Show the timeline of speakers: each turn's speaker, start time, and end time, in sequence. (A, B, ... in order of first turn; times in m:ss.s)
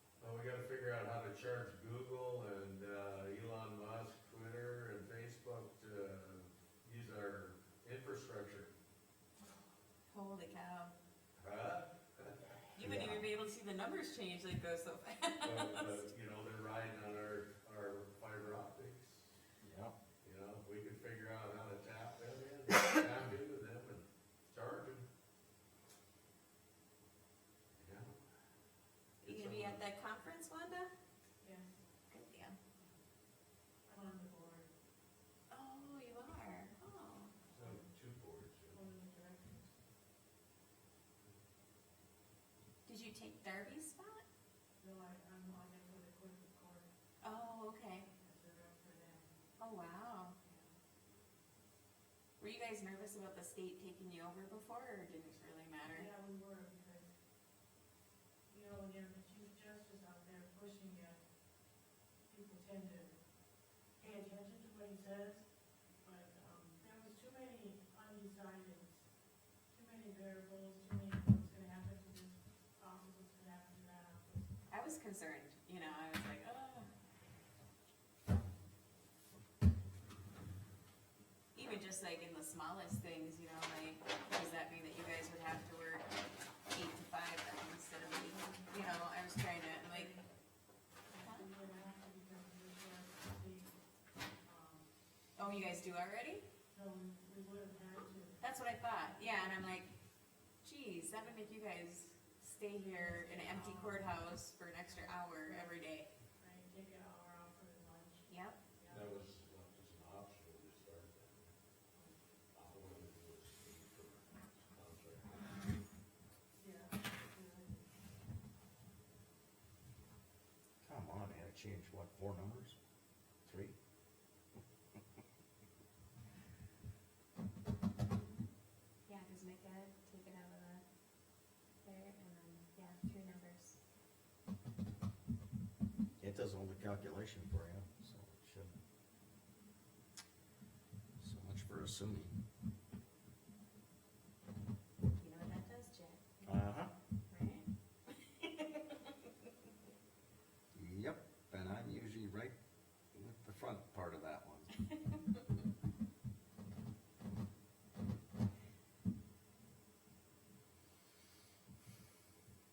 0:00.2-0:08.7 A
0:10.1-0:10.9 B
0:11.4-0:12.6 A
0:12.8-0:16.0 B
0:12.8-0:13.3 C
0:15.4-0:19.3 A
0:19.6-0:20.0 C
0:20.2-0:25.1 A
0:27.8-0:28.2 A
0:29.2-0:29.8 A
0:29.2-0:30.9 B
0:31.4-0:31.8 D
0:32.1-0:32.6 B
0:33.9-0:34.7 D
0:35.5-0:37.3 B
0:37.5-0:38.9 A
0:38.7-0:39.7 D
0:42.9-0:44.2 B
0:44.8-0:46.9 D
0:47.2-0:48.1 B
0:48.2-0:49.3 D
0:49.6-0:50.4 B
0:52.4-0:56.1 B
0:56.0-0:57.1 D
0:58.5-1:01.3 D
1:02.3-1:03.2 D
1:04.0-1:09.1 D
1:09.7-1:14.5 D
1:14.7-1:16.9 B
1:21.5-1:26.2 B
1:26.7-1:30.2 B
1:28.3-1:28.7 D
1:30.0-1:30.2 D
1:31.1-1:31.5 B
1:31.1-1:33.7 D
1:34.4-1:34.9 D
1:35.4-1:36.4 B
1:36.7-1:38.4 D
1:38.4-1:39.9 B
1:40.6-1:46.1 B
1:42.9-1:44.1 D
1:46.4-1:49.1 D
1:48.3-1:48.6 B
1:48.9-1:51.5 A
1:52.5-1:55.4 A
1:56.6-1:57.8 D
2:00.8-2:02.8 C
2:03.4-2:03.8 C
2:09.1-2:10.8 B
2:11.8-2:13.8 B
2:16.2-2:18.7 C
2:21.2-2:22.4 C
2:25.2-2:26.6 B
2:26.4-2:26.9 C
2:27.3-2:27.7 B
2:28.4-2:28.8 B
2:30.7-2:32.6 C
2:33.1-2:34.7 C